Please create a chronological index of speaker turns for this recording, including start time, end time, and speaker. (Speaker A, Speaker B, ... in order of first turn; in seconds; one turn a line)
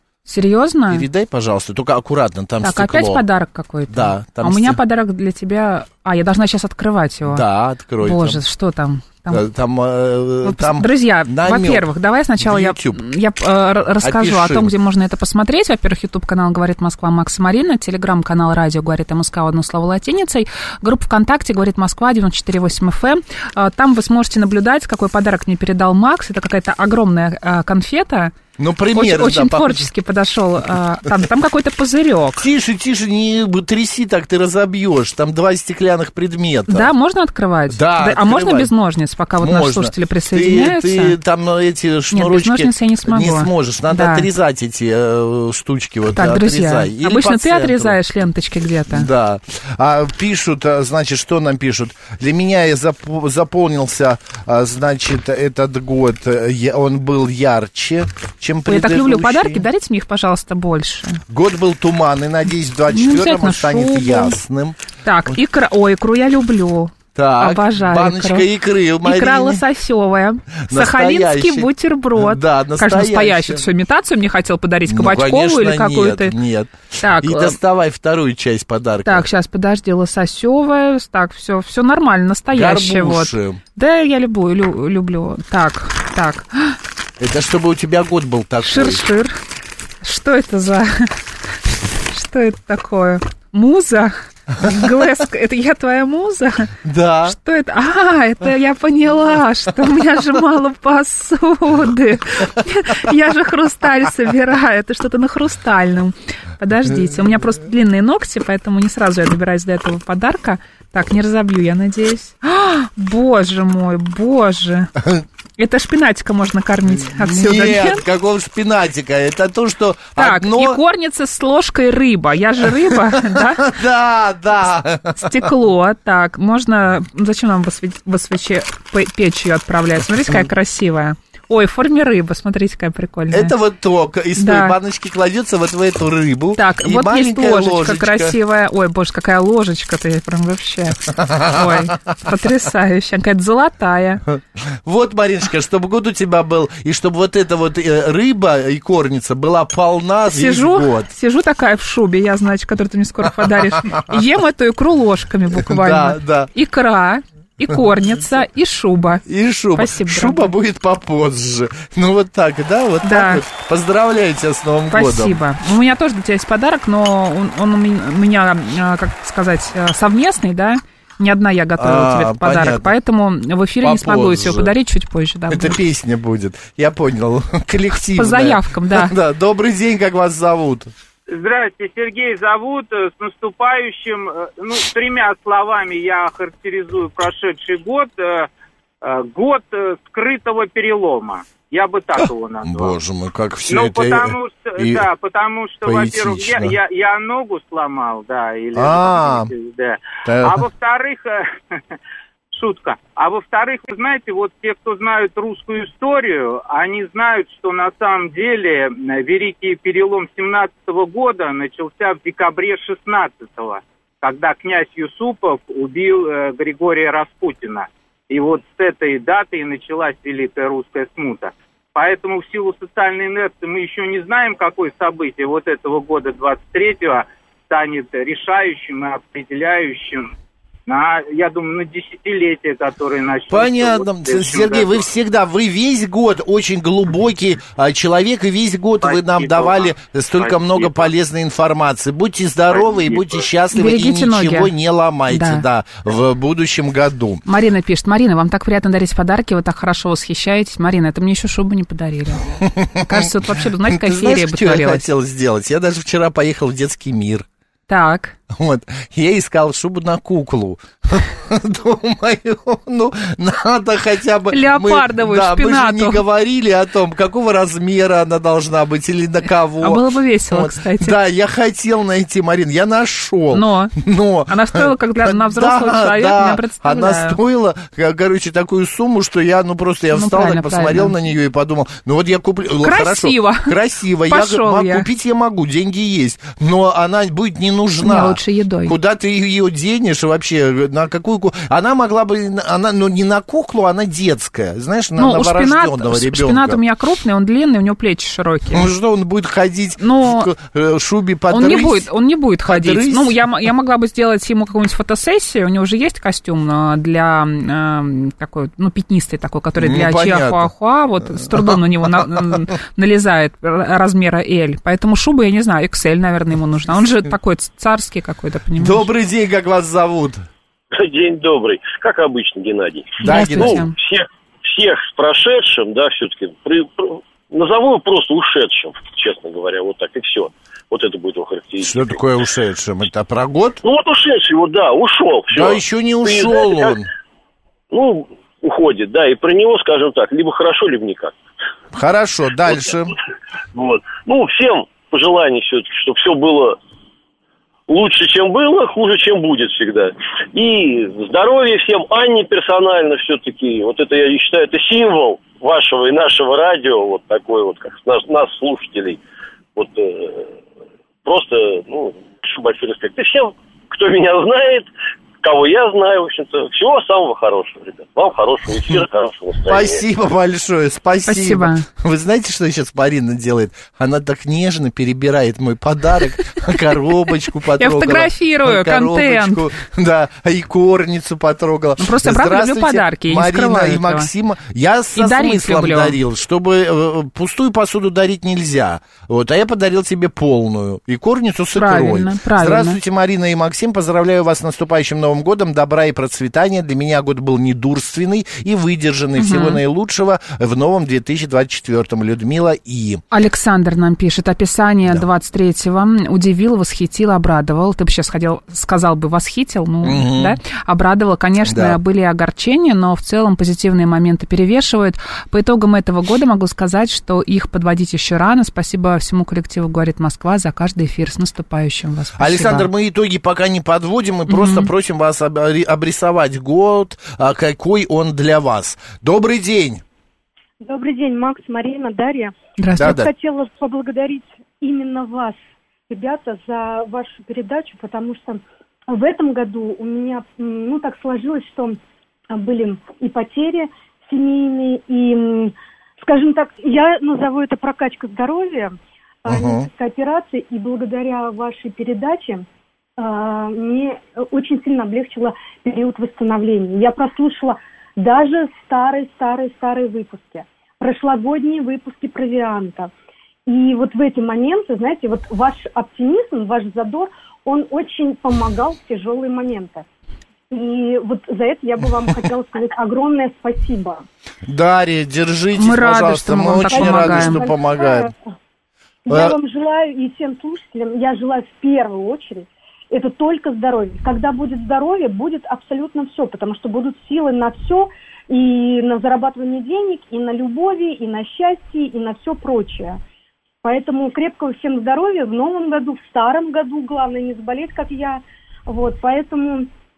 Speaker A: 0.3-1.1
Speaker B: 0.9-3.2
Speaker A: 2.6-7.5
Speaker B: 3.9-4.8
Speaker B: 7.3-8.4
Speaker A: 8.0-9.4
Speaker B: 9.3-13.0
Speaker A: 10.4-28.4
Speaker B: 14.0-14.7
Speaker B: 28.6-29.9
Speaker A: 28.9-32.5
Speaker B: 32.4-36.9
Speaker A: 36.7-41.2
Speaker B: 37.7-38.7
Speaker B: 39.4-48.0
Speaker A: 42.1-44.3
Speaker A: 46.1-49.1
Speaker B: 48.9-59.6
Speaker A: 58.7-61.2
Speaker B: 61.3-64.8
Speaker A: 62.9-64.4
Speaker A: 65.0-68.5
Speaker B: 67.2-69.6
Speaker A: 69.0-76.4
Speaker B: 70.7-73.7
Speaker B: 74.9-79.3
Speaker A: 77.0-77.6
Speaker A: 79.0-86.8
Speaker B: 82.5-83.6
Speaker B: 87.2-89.0
Speaker A: 88.6-89.3
Speaker A: 90.0-91.1
Speaker A: 92.1-96.7
Speaker B: 96.8-97.4
Speaker A: 97.3-114.9
Speaker A: 115.6-118.0
Speaker B: 116.9-120.8
Speaker A: 120.2-123.7
Speaker B: 122.8-125.5
Speaker A: 125.2-133.5
Speaker B: 133.3-138.4
Speaker A: 134.4-134.8
Speaker A: 136.6-144.2
Speaker B: 141.2-141.9
Speaker B: 144.3-151.1
Speaker A: 150.3-159.2
Speaker B: 155.5-156.5
Speaker B: 159.3-165.4
Speaker A: 159.8-160.5
Speaker A: 163.0-163.4
Speaker A: 164.9-175.8
Speaker B: 171.8-172.9
Speaker B: 173.8-174.7
Speaker B: 175.5-180.9
Speaker A: 178.2-179.1
Speaker C: 181.3-188.5
Speaker C: 189.0-192.9
Speaker B: 192.6-195.1
Speaker C: 193.7-201.5
Speaker B: 195.8-196.8
Speaker B: 198.7-199.5
Speaker B: 200.2-200.6
Speaker C: 202.5-230.3
Speaker C: 230.9-235.1
Speaker B: 233.5-247.4
Speaker C: 239.0-241.1
Speaker C: 242.7-243.5
Speaker A: 243.7-244.7
Speaker A: 245.3-245.7
Speaker A: 247.5-252.5
Speaker B: 252.6-253.3
Speaker A: 253.0-255.1
Speaker B: 253.9-257.5
Speaker A: 257.9-258.4
Speaker B: 258.5-296.8
Speaker A: 264.5-266.2
Speaker A: 269.8-271.2
Speaker A: 273.5-273.9
Speaker A: 274.5-277.4
Speaker A: 280.1-281.1
Speaker A: 282.8-283.7
Speaker A: 284.3-285.1
Speaker A: 288.0-288.9
Speaker A: 295.2-298.9
Speaker B: 298.7-302.1
Speaker A: 300.0-300.5
Speaker A: 301.5-319.1
Speaker B: 302.6-303.4
Speaker B: 309.8-310.7
Speaker B: 311.4-312.2
Speaker B: 318.8-320.4
Speaker D: 320.9-332.2
Speaker B: 323.2-323.9
Speaker A: 323.2-323.9
Speaker B: 331.8-333.8
Speaker D: 333.8-337.0
Speaker B: 335.5-337.1
Speaker D: 337.9-341.3
Speaker B: 341.9-343.1
Speaker D: 343.7-346.8
Speaker D: 347.9-359.2
Speaker D: 359.8-360.5
Speaker D: 361.2-364.9
Speaker D: 365.4-370.0
Speaker B: 369.7-403.2
Speaker A: 371.3-371.9
Speaker A: 377.8-379.6
Speaker A: 382.0-384.3
Speaker A: 385.2-386.2
Speaker A: 391.7-393.0
Speaker A: 399.4-399.8
Speaker A: 403.3-422.9
Speaker B: 410.0-410.6
Speaker B: 411.6-412.0
Speaker B: 422.4-430.0
Speaker A: 424.5-424.9
Speaker E: 430.8-442.0
Speaker A: 432.8-433.2
Speaker B: 433.0-433.3
Speaker E: 442.5-452.7
Speaker B: 449.5-449.9
Speaker E: 453.2-463.1
Speaker E: 463.7-470.1
Speaker E: 470.7-474.2
Speaker B: 474.7-478.3
Speaker A: 475.8-477.6
Speaker E: 476.9-478.3
Speaker E: 479.3-493.2
Speaker B: 479.3-479.5
Speaker E: 493.8-499.9